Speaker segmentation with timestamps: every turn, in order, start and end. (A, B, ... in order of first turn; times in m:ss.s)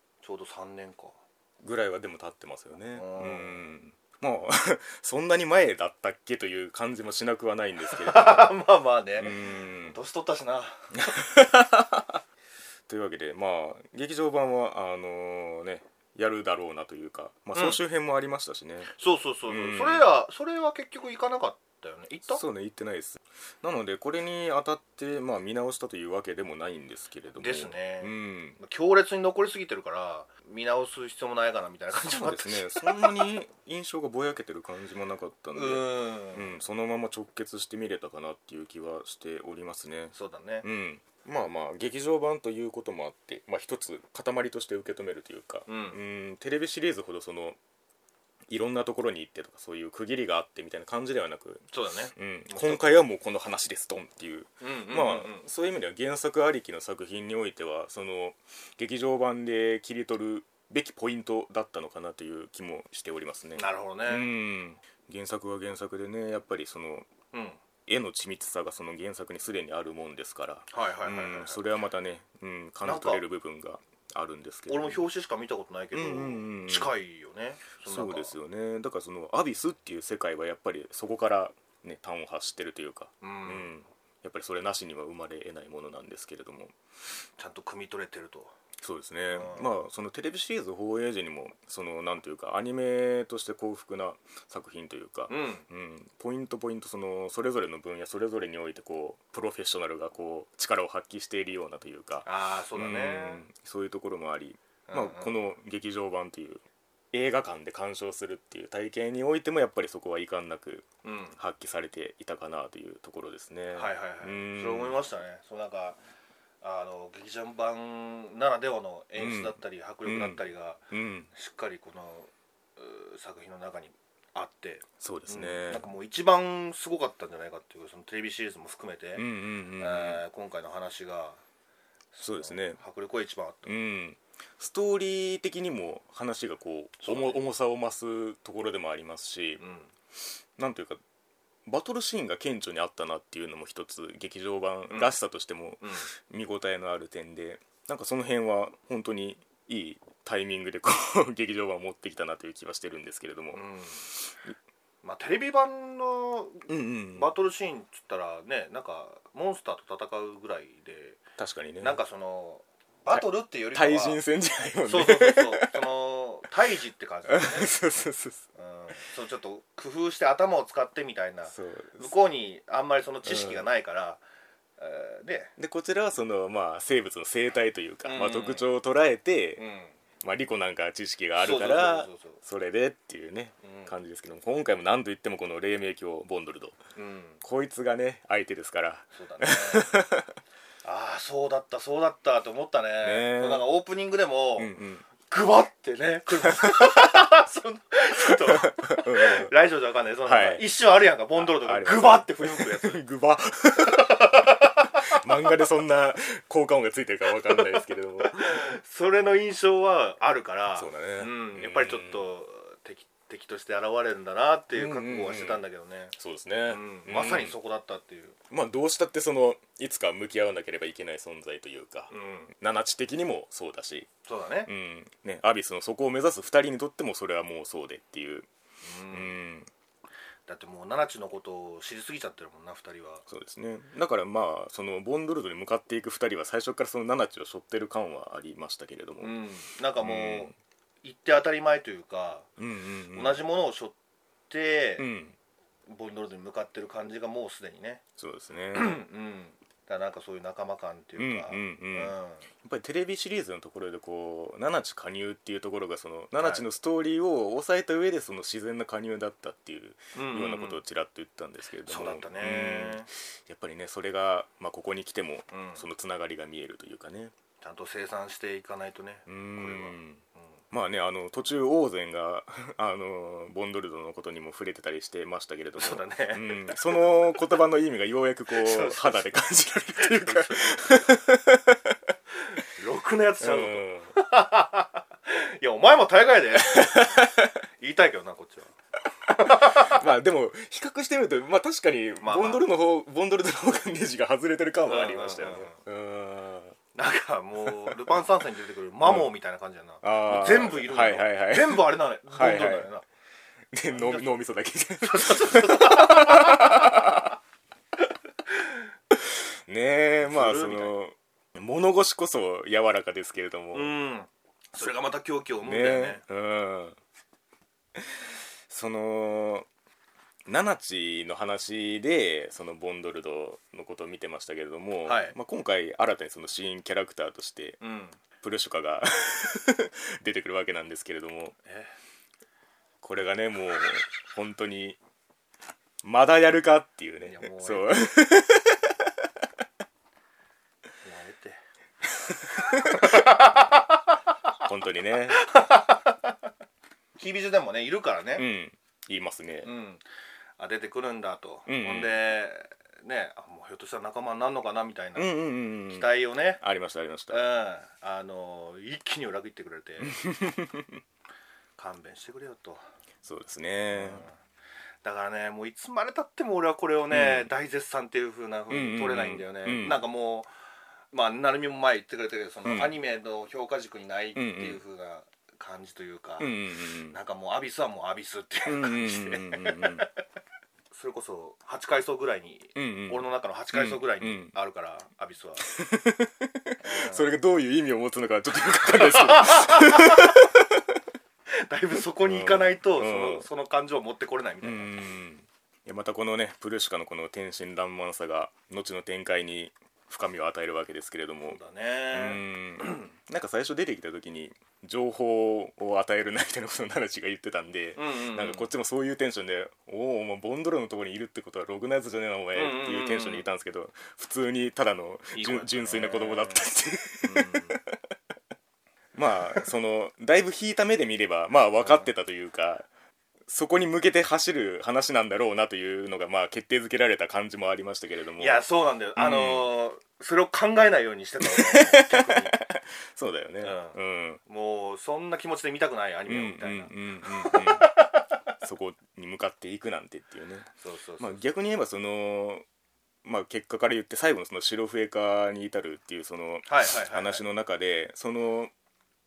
0:00.2-0:01.2 A
0:01.6-0:08.5 B
0:02.9-0:03.7 A
0:07.8-0:11.1 A
0:09.2-0:10.0 B
0:10.9-0:12.2 B
0:12.9-0:18.9 B
0:18.8-0:22.4 A
0:19.5-0:20.1 B
0:22.3-0:28.6 B
0:27.4-0:33.1 A
0:31.9-0:47.6 B
0:35.5-0:36.5 A
0:40.1-0:40.6 A
0:45.7-0:46.0 A
0:48.5-1:07.1 B
0:51.7-0:53.0 A
0:54.6-0:55.4 A
1:03.6-1:04.3 A
1:07.3-1:07.6 A
1:07.9-1:15.0 B
1:10.7-1:11.6 A
1:12.8-1:13.2 A
1:14.7-1:18.4 A
1:15.9-1:16.9 B
1:17.9-1:26.8 B
1:23.2-1:23.7 A
1:27.4-1:28.5 A
1:28.8-1:55.0 B
1:29.3-1:29.7 A
1:35.3-1:35.7 A
1:42.2-1:43.4 A
1:44.9-1:45.3 A
1:51.0-1:51.4 A
1:53.7-1:56.0 A
1:56.6-2:09.2 A
1:59.2-2:01.3 B
2:05.0-2:05.8 B
2:09.2-2:10.2 B
2:09.8-2:11.4 A
2:12.1-2:13.8 A
2:12.2-2:12.8 B
2:13.7-2:19.6 B
2:17.0-2:17.4 A
2:19.6-2:19.9 A
2:20.6-2:21.0 B
2:21.7-2:34.6 B
2:25.8-2:26.1 A
2:33.5-2:34.0 A
2:35.0-2:41.2 A
2:36.7-2:37.3 B
2:41.4-2:42.0 B
2:41.8-2:44.2 A
2:43.1-2:45.8 B
2:44.8-2:47.7 A
2:47.3-2:48.5 B
2:48.6-2:54.2 A
2:51.5-2:52.1 B
2:53.2-2:53.7 B
2:54.8-2:55.5 A
2:55.6-2:59.6 B
2:58.0-2:58.7 A
2:59.6-3:00.0 A
3:00.2-3:06.8 B
3:01.4-3:02.4 A
3:03.6-3:03.9 A
3:07.0-3:07.4 A
3:07.4-3:10.3 B
3:09.1-3:09.9 A
3:10.8-3:14.7 A
3:13.0-3:13.7 B
3:14.6-3:15.1 B
3:15.2-3:23.0 A
3:18.5-3:19.5 B
3:20.3-3:20.7 B
3:21.4-3:28.5 B
3:23.8-3:25.3 A
3:28.2-3:36.1 A
3:30.8-3:32.3 B
3:34.7-3:37.6 B
3:36.7-3:38.4 A
3:38.5-3:44.1 B
3:42.1-3:42.5 A
3:44.3-3:44.7 A
3:44.7-3:48.5 B
3:48.8-3:49.3 A
3:49.1-3:49.7 B
3:50.5-3:53.2 A
3:53.3-3:59.3 B
3:59.2-4:00.5 A
4:00.0-4:00.5 B
4:01.0-4:02.5 A
4:02.6-4:03.4 B
4:03.1-4:04.0 A
4:04.5-4:05.0 A
4:05.0-4:05.4 B
4:05.9-4:08.0 A
4:08.2-4:09.0 B
4:08.7-4:12.5 A
4:11.2-4:27.3 B
4:16.4-4:16.6 A
4:20.1-4:20.8 A
4:21.9-4:23.1 A
4:25.5-4:25.8 A
4:27.6-4:30.5 A
4:29.3-4:42.0 B
4:35.8-4:36.4 A
4:38.5-4:39.2 A
4:40.0-4:41.0 A
4:42.7-4:47.0 A
4:43.4-4:44.1 B
4:46.6-4:47.6 B
4:47.8-4:48.7 A
4:49.3-4:50.0 A
4:49.4-4:56.8 B
4:52.2-4:52.6 A
4:54.9-4:55.8 A
4:57.0-5:03.0 A
4:57.6-4:58.1 B
4:59.0-4:59.3 B
5:00.0-5:02.9 B
5:03.7-5:07.3 B
5:03.9-5:04.4 A
5:05.0-5:07.2 A
5:08.5-5:08.9 A
5:09.2-5:13.9 B
5:10.2-5:10.9 A
5:13.7-5:16.2 A
5:15.6-5:17.0 B
5:18.7-5:19.7 B
5:20.5-5:27.8 B
5:25.0-5:25.4 A
5:27.8-5:28.2 A
5:28.4-5:31.6 B
5:31.6-5:32.0 A
5:33.0-5:35.0 B
5:36.0-5:39.1 B
5:37.2-5:38.0 A
5:41.0-5:41.6 A
5:42.5-5:43.1 B
5:42.6-5:44.2 A
5:44.6-5:45.4 B
5:45.3-5:46.4 A
5:47.2-5:48.5 A
5:48.4-5:49.7 B
5:49.6-5:50.0 A
5:50.6-5:56.6 A
5:51.7-5:52.2 B
5:55.2-5:57.5 B
5:57.3-6:00.2 A
6:00.0-6:01.0 B
6:01.8-6:02.8 A
6:03.2-6:04.3 B
6:03.9-6:04.4 A
6:05.0-6:10.5 A
6:07.1-6:07.5 B
6:08.7-6:10.0 B
6:11.1-6:20.1 A
6:12.6-6:13.0 B
6:14.4-6:14.8 B
6:16.4-6:17.2 B
6:18.7-6:20.1 B
6:20.9-6:25.6 A
6:22.8-6:24.5 B
6:25.6-6:31.0 B
6:26.8-6:27.4 A
6:28.7-6:30.4 A
6:31.5-6:34.9 A
6:32.2-6:33.5 B
6:34.6-6:41.6 B
6:41.4-6:43.1 A
6:42.1-6:58.0 B
6:48.0-6:48.7 A
6:52.6-6:53.5 A
6:55.3-6:56.7 A
6:57.2-6:57.8 A
6:59.2-7:02.9 B
7:01.8-7:02.1 A
7:03.5-7:08.6 B
7:08.4-7:12.6 A
7:09.2-7:09.7 B
7:11.4-7:14.4 B
7:13.6-7:18.3 A
7:16.3-7:17.9 B
7:18.6-7:22.6 B
7:20.8-7:21.4 A
7:23.2-7:28.7 B
7:26.7-7:27.4 A